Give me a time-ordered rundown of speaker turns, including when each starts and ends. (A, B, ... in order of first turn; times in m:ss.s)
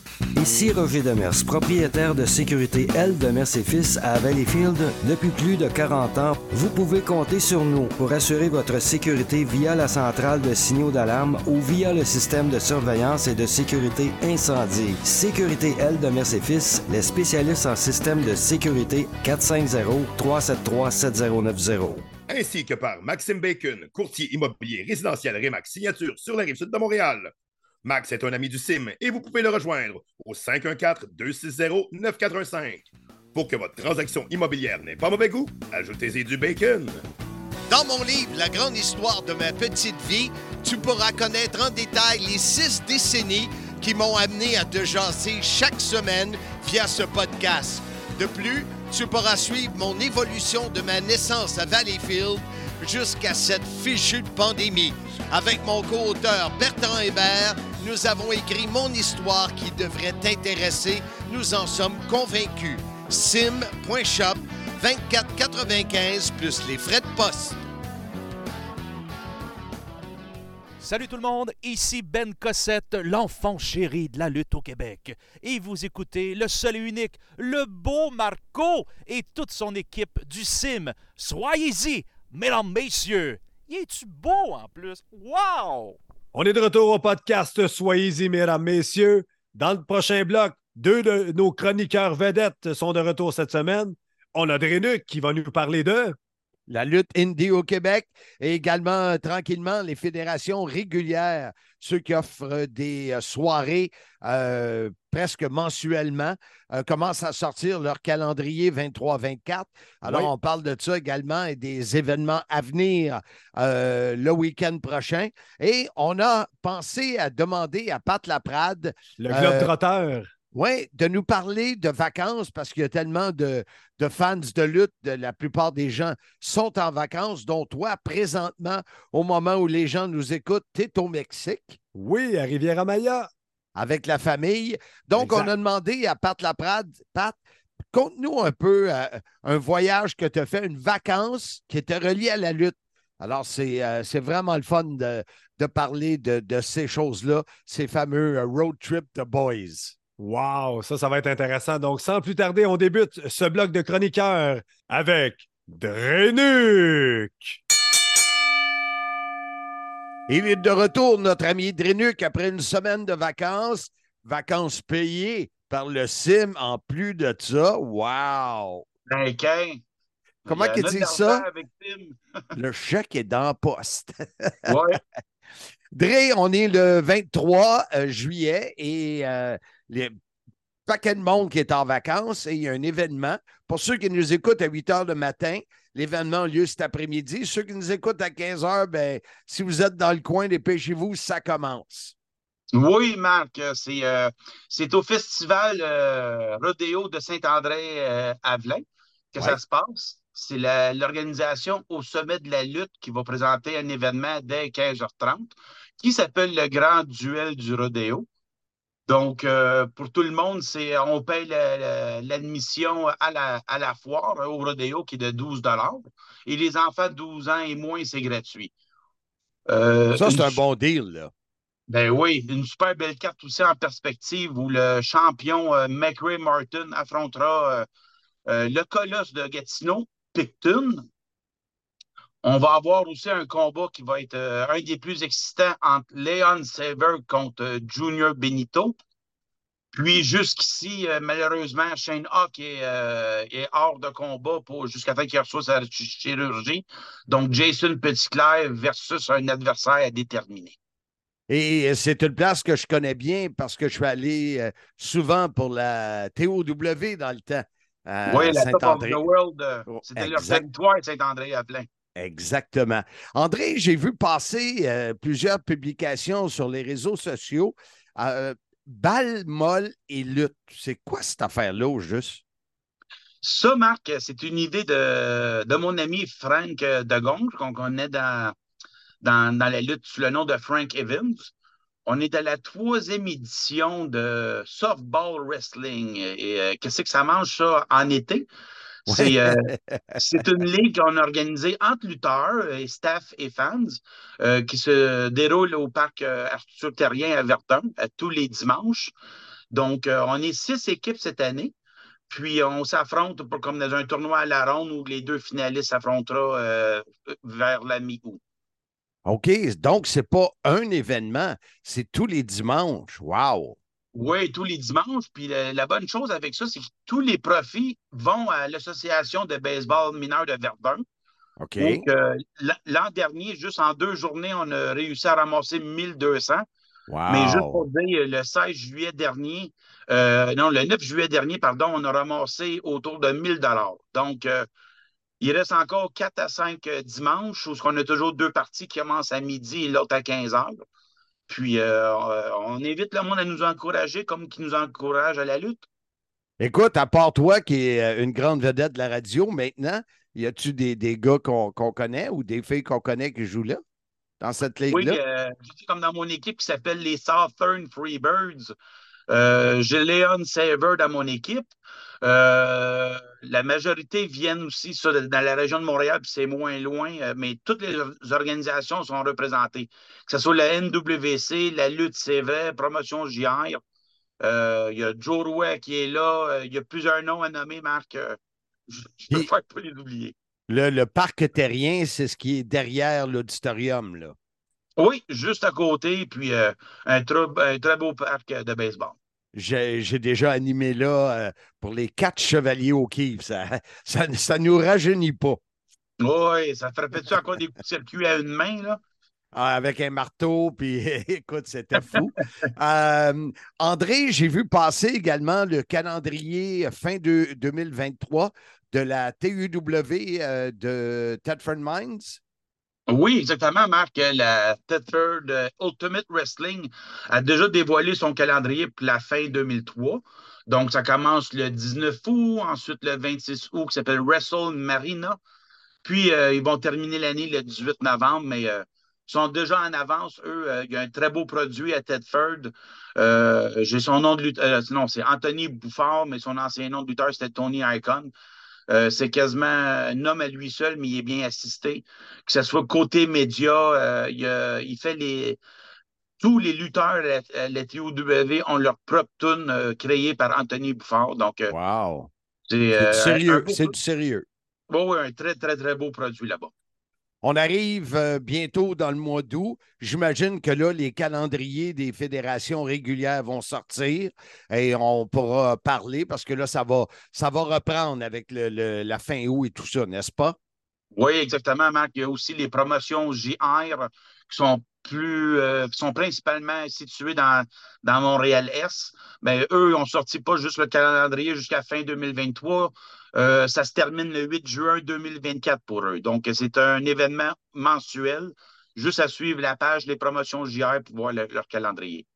0:00.3-0:22.0 A
0:22.3-0:27.3 B
0:27.8-0:37.0 B
0:37.7-1:07.6 C
1:10.8-1:26.0 D
1:26.3-1:36.2 E
1:36.7-1:59.7 C
1:50.0-1:50.3 E
1:59.2-2:00.3 E
2:00.5-2:11.8 C
2:11.9-2:13.3 E
2:13.8-2:17.4 C
2:15.2-2:15.5 E
2:17.9-2:29.9 C
2:30.2-2:37.6 E
2:40.3-2:48.8 C
2:49.1-2:49.8 F
2:50.4-2:52.2 F
2:50.5-2:51.4 C
2:52.6-2:54.8 C
2:54.7-2:55.0 F
2:55.9-3:00.2 C
3:00.9-3:12.1 C
3:12.7-3:28.3 F
3:29.1-3:38.7 F
3:39.7-3:40.6 F
3:40.1-3:41.3 C
3:41.9-3:47.9 F
3:48.5-3:51.1 F
3:52.4-3:59.0 F
3:59.9-4:10.8 F
4:11.5-4:19.2 C
4:18.3-4:21.9 F
4:19.8-4:20.7 C
4:22.2-4:32.4 C
4:33.4-4:38.6 F
4:39.2-4:41.5 F
4:42.0-4:48.5 F
4:49.1-4:50.2 C
4:49.1-4:59.1 F
4:59.7-5:01.7 F
5:02.3-5:08.4 F
5:09.2-5:13.8 C
5:14.1-5:21.0 F
5:21.6-5:22.0 C
5:21.8-5:26.6 F
5:27.1-5:27.8 C
5:27.3-5:34.7 F
5:35.4-5:40.8 F
5:41.5-5:45.8 F
5:46.6-5:53.8 C
5:54.4-5:55.2 C
5:54.9-5:58.7 F
5:59.3-6:01.7 F
6:02.2-6:13.8 F
6:14.4-6:20.3 F
6:20.7-6:24.3 C
6:25.0-6:29.2 F
6:29.5-6:35.6 C
6:36.2-6:39.0 F
6:39.5-6:52.4 C
6:53.1-7:05.4 F
7:06.0-7:18.3 F
7:18.9-7:25.6 F
7:26.4-7:31.7 F
7:31.7-7:32.3 C
7:32.7-7:33.9 F
7:32.9-7:34.4 C
7:34.9-7:36.7 F
7:37.4-7:50.6 C
7:51.1-8:12.2 F